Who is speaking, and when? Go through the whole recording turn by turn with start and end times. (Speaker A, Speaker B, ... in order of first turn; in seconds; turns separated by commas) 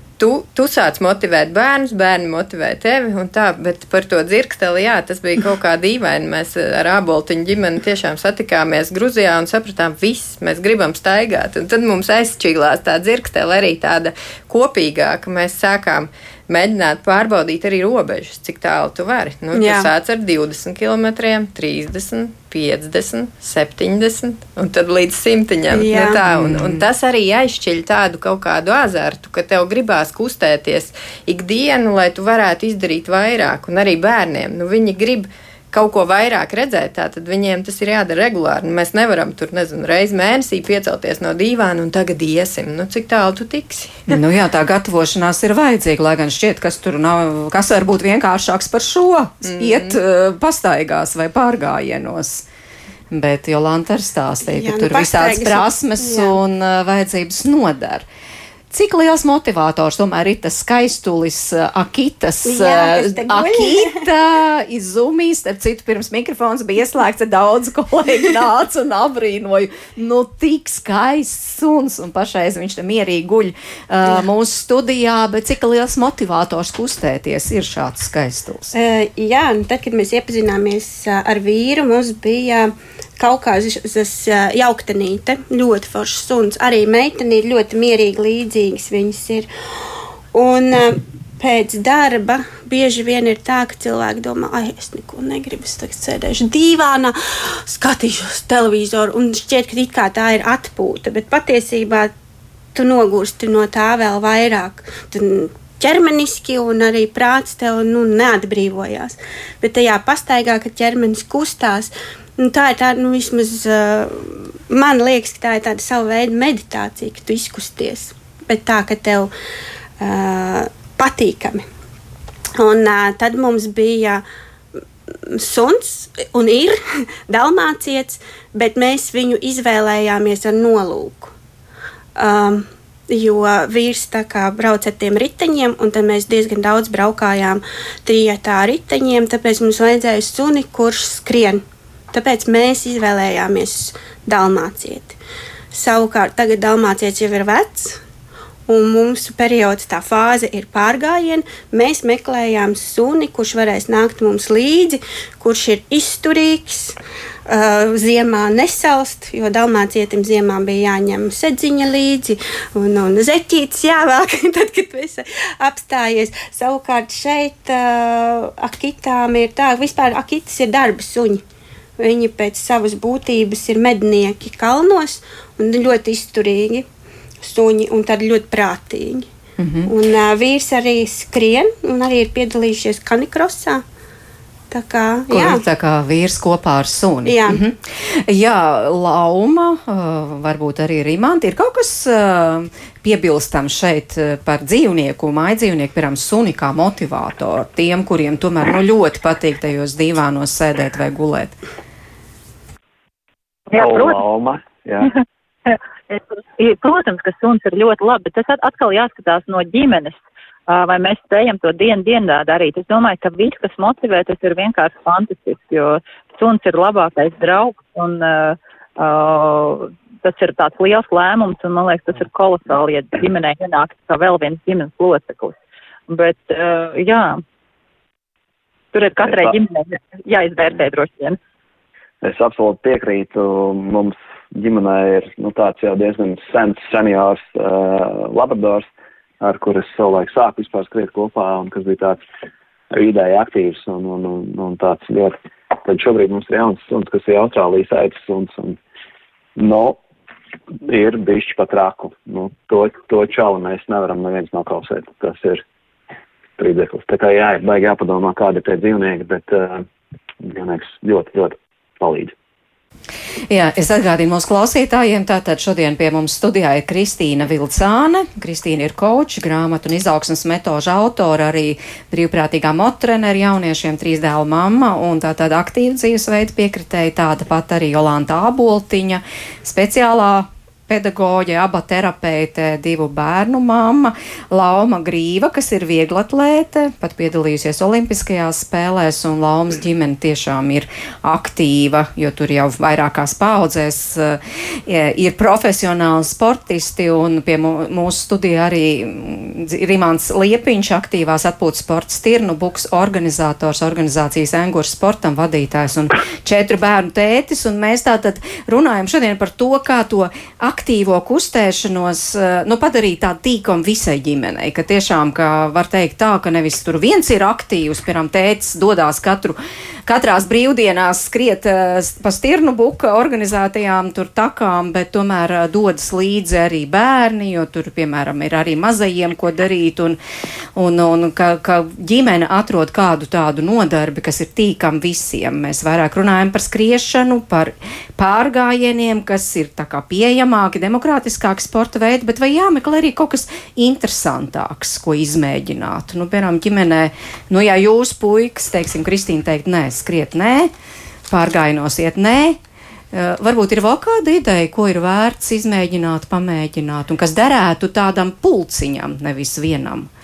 Speaker A: 0.2-44.0, Speaker B: 19.5-19.9, Speaker B: 25.7-26.2, Speaker C: 26.3-26.8, Speaker C: 44.1-52.5, Speaker A: 49.4-50.0, Speaker C: 53.1-58.1, Speaker B: 54.5-56.4, Speaker C: 58.7-78.7, Speaker B: 62.5-64.0, Speaker B: 78.7-89.5, Speaker B: 90.3-102.1, Speaker B: 102.8-119.3, Speaker B: 120.0-121.6, Speaker B: 122.6-124.2, Speaker B: 125.3-131.3, Speaker B: 132.2-145.2, Speaker B: 145.7-148.0, Speaker B: 148.7-157.0, Speaker B: 157.5-171.4, Speaker B: 172.0-176.9, Speaker B: 177.4-179.3, Speaker C: 179.6-179.9, Speaker B: 179.9-183.8, Speaker B: 184.7-185.6, Speaker C: 185.3-201.6, Speaker B: 187.2-187.7, Speaker D: 203.7-204.2, Speaker E: 203.7-205.1, Speaker D: 205.7-210.2, Speaker D: 210.7-225.6, Speaker D: 226.1-227.4, Speaker D: 228.9-231.4, Speaker E: 229.2-229.6, Speaker E: 232.2-238.9, Speaker E: 239.4-242.2, Speaker E: 242.9-248.8, Speaker E: 249.6-250.0, Speaker E: 250.9-255.6, Speaker E: 256.6-259.9, Speaker E: 260.4-262.3, Speaker C: 263.5-330.2, Speaker C: 330.8-350.7, Speaker C: 351.3-352.6, Speaker C: 353.1-360.1